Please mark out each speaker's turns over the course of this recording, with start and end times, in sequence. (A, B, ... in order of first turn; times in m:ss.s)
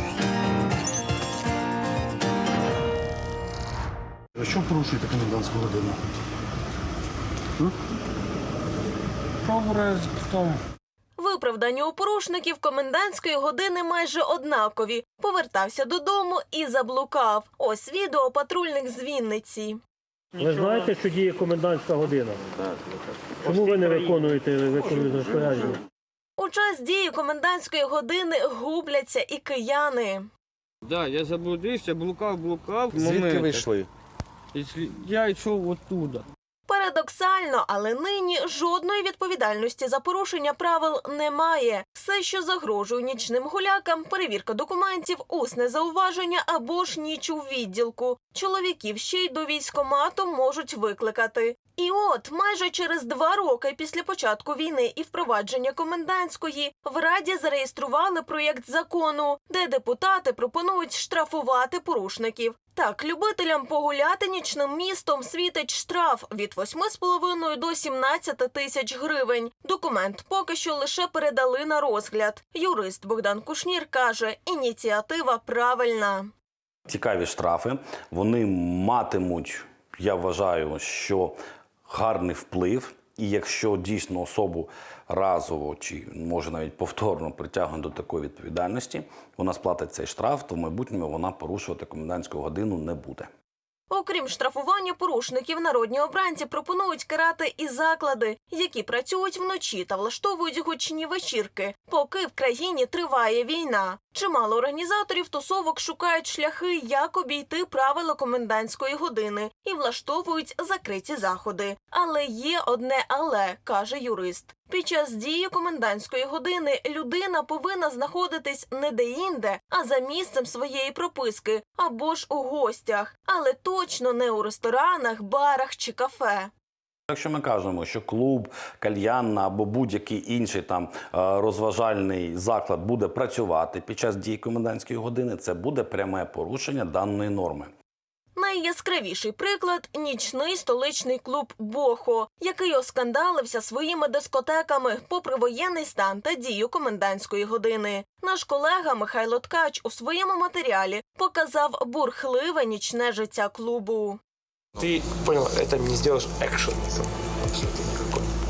0:04.5-0:05.9 A
0:09.4-0:10.6 B
0:11.2-0:19.8 C
0:20.4-0:20.9 B
0:20.4-0:22.4 D
0:23.4-0:24.4 B
0:23.5-0:25.8 D
0:26.4-0:30.3 C
0:30.8-0:33.6 B
0:33.0-0:33.8 A
0:34.5-0:36.2 B
0:36.7-1:16.3 C
1:16.9-1:33.3 E
1:33.9-2:06.5 C
2:07.1-2:17.7 E
2:18.3-2:34.2 C
2:34.8-2:38.3 F